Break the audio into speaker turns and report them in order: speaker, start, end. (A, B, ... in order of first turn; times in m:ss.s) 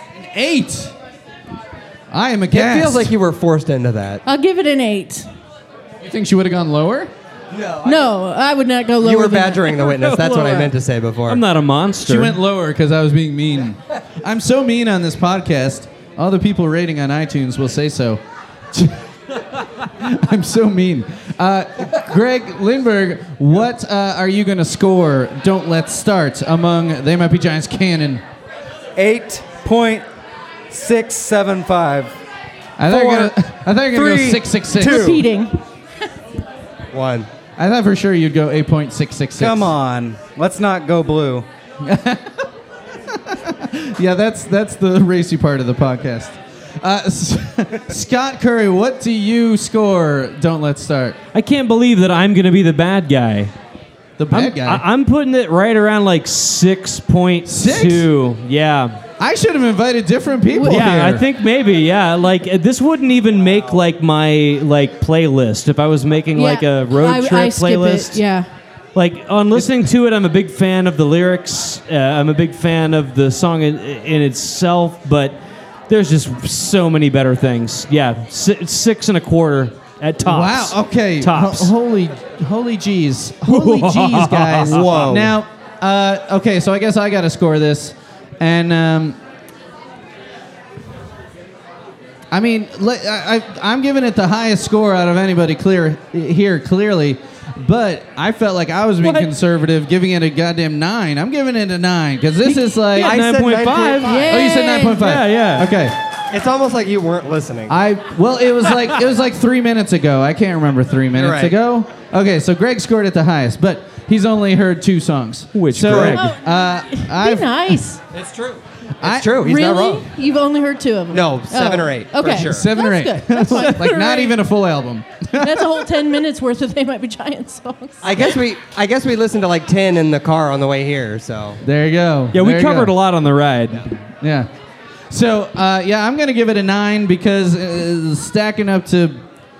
0:00.2-0:00.9 A
0:02.1-0:03.1 A
0:02.5-0:04.2 B
0:04.2-0:05.3 C
0:06.0-0:07.1 A
0:07.8-0:09.9 C
0:09.0-0:11.4 B
0:09.9-0:10.7 D
0:11.3-0:12.4 D
0:12.0-0:18.2 A
0:20.0-0:28.2 A
0:29.0-0:30.1 E
0:30.7-0:32.1 E
0:32.8-0:35.2 A
0:32.9-0:33.3 E
0:33.9-0:34.5 E
0:34.7-0:35.6 C
0:34.7-0:35.2 B
0:36.9-0:37.3 B
0:37.6-0:39.7 A
0:39.4-0:41.5 E
0:41.8-0:42.2 A
0:43.3-0:51.2 A
0:51.3-0:53.5 D
0:54.2-0:54.8 A
0:54.3-0:59.0 D
0:57.4-0:58.1 A
0:59.2-1:01.2 A
1:00.5-1:00.9 C
1:00.6-1:08.2 D
1:06.3-1:08.5 C
1:08.9-1:21.7 D
1:09.5-1:09.8 A
1:20.2-1:29.2 A
1:23.4-1:25.0 D
1:24.7-1:25.4 B
1:32.3-1:43.2 A
1:39.0-1:39.3 D
1:42.4-1:45.7 D
1:43.0-1:44.3 B
1:44.0-1:45.0 C
1:44.3-1:45.9 A
1:46.3-1:47.8 B
1:47.7-1:57.8 A
1:51.1-1:51.6 B
1:55.5-1:56.3 D
1:55.8-1:56.1 B
1:56.0-1:58.0 C
1:59.0-1:59.4 A
1:59.0-2:00.1 B
1:59.4-2:04.4 C
2:01.1-2:02.7 B
2:02.4-2:05.8 A
2:05.3-2:08.1 C
2:08.0-2:11.6 B
2:11.6-2:12.9 A
2:12.3-2:13.9 D
2:14.2-2:14.5 A
2:15.1-2:19.2 A